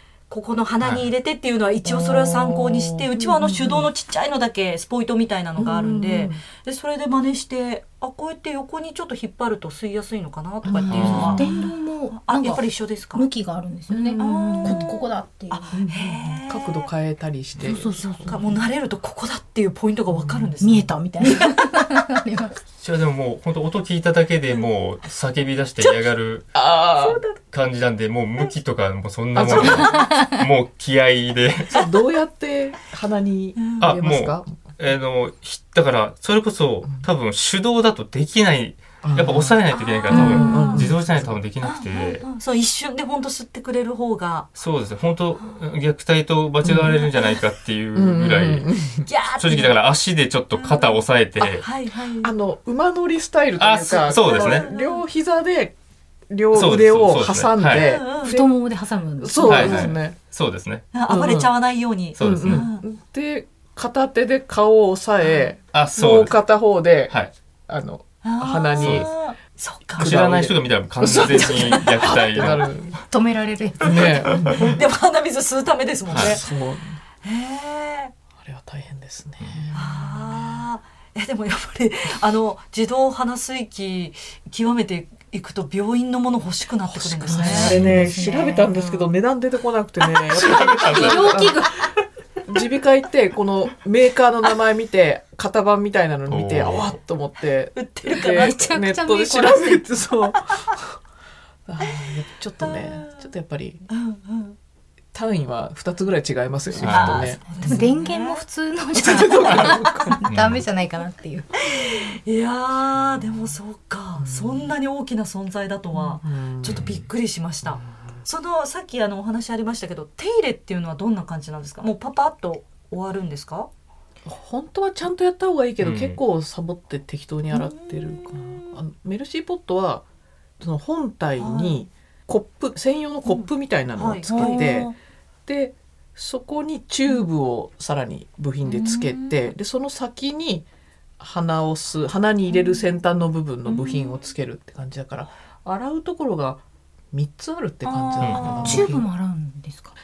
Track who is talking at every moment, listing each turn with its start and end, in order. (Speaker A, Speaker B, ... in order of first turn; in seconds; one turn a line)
Speaker A: 0.3-13.2
Speaker B: 0.8-1.1
Speaker C: 1.8-3.9
Speaker C: 5.6-6.4
Speaker C: 10.6-11.5
Speaker D: 10.8-15.8
Speaker B: 10.9-11.3
Speaker C: 13.9-14.9
Speaker A: 13.9-15.0
Speaker A: 15.5-16.9
Speaker C: 15.7-18.4
Speaker D: 17.6-18.7
Speaker A: 18.1-21.5
Speaker C: 20.1-20.5
Speaker D: 20.6-22.6
Speaker B: 22.8-26.6
Speaker A: 25.8-26.1
Speaker C: 26.5-27.2
Speaker A: 26.9-27.4
Speaker B: 27.5-31.7
Speaker C: 29.3-29.9
Speaker A: 29.4-30.1
Speaker D: 29.7-30.4
Speaker C: 31.7-34.5
Speaker A: 33.6-33.8
Speaker B: 33.8-42.3
Speaker C: 39.0-41.4
Speaker A: 39.7-40.9
Speaker A: 41.6-44.5
Speaker B: 44.5-48.7
Speaker C: 46.6-47.0
Speaker C: 47.9-49.1
Speaker A: 49.0-49.8
Speaker B: 49.3-51.7
Speaker A: 50.5-52.3
Speaker C: 52.2-55.7
Speaker B: 53.6-54.7
Speaker A: 54.2-55.0
Speaker C: 56.3-58.6
Speaker B: 56.5-57.9
Speaker A: 57.7-58.3
Speaker D: 58.2-59.9
Speaker C: 59.2-60.2
Speaker B: 59.5-60.9
Speaker A: 60.9-62.8
Speaker C: 61.1-61.6
Speaker B: 62.1-62.7
Speaker C: 62.2-69.2
Speaker B: 65.7-66.4
Speaker A: 68.2-70.1
Speaker B: 68.8-69.1
Speaker B: 70.0-72.8
Speaker C: 70.0-73.0
Speaker A: 71.1-72.0
Speaker D: 73.1-74.3
Speaker C: 73.8-74.8
Speaker A: 74.5-76.5
Speaker C: 76.1-77.0
Speaker B: 76.1-76.4
Speaker A: 77.2-78.1
Speaker C: 78.4-80.6
Speaker B: 79.4-79.7
Speaker A: 79.7-87.8
Speaker C: 86.8-91.8
Speaker D: 87.3-89.1
Speaker B: 87.5-88.1
Speaker B: 90.4-91.5
Speaker D: 90.5-91.8
Speaker C: 92.5-100.9
Speaker B: 96.3-97.0
Speaker A: 97.7-98.5
Speaker D: 98.2-99.9
Speaker C: 101.7-103.8
Speaker A: 101.8-102.1
Speaker A: 102.6-103.1
Speaker A: 103.9-104.5
Speaker C: 105.1-107.9
Speaker A: 106.7-108.4
Speaker B: 106.8-107.4
Speaker D: 107.5-111.5
Speaker C: 108.9-110.2
Speaker B: 110.2-110.6
Speaker A: 111.6-123.7
Speaker C: 114.2-114.7
Speaker C: 115.9-117.0
Speaker B: 116.7-117.0
Speaker C: 117.6-118.2
Speaker C: 124.2-130.0
Speaker B: 125.8-126.2
Speaker A: 127.5-128.8
Speaker C: 130.6-134.9
Speaker A: 131.4-131.8
Speaker A: 133.2-134.9
Speaker C: 135.5-140.7
Speaker A: 138.6-139.5
Speaker C: 141.2-149.1
Speaker A: 142.5-142.8
Speaker A: 143.7-144.3
Speaker A: 147.8-148.8
Speaker B: 148.2-148.8
Speaker D: 148.6-149.9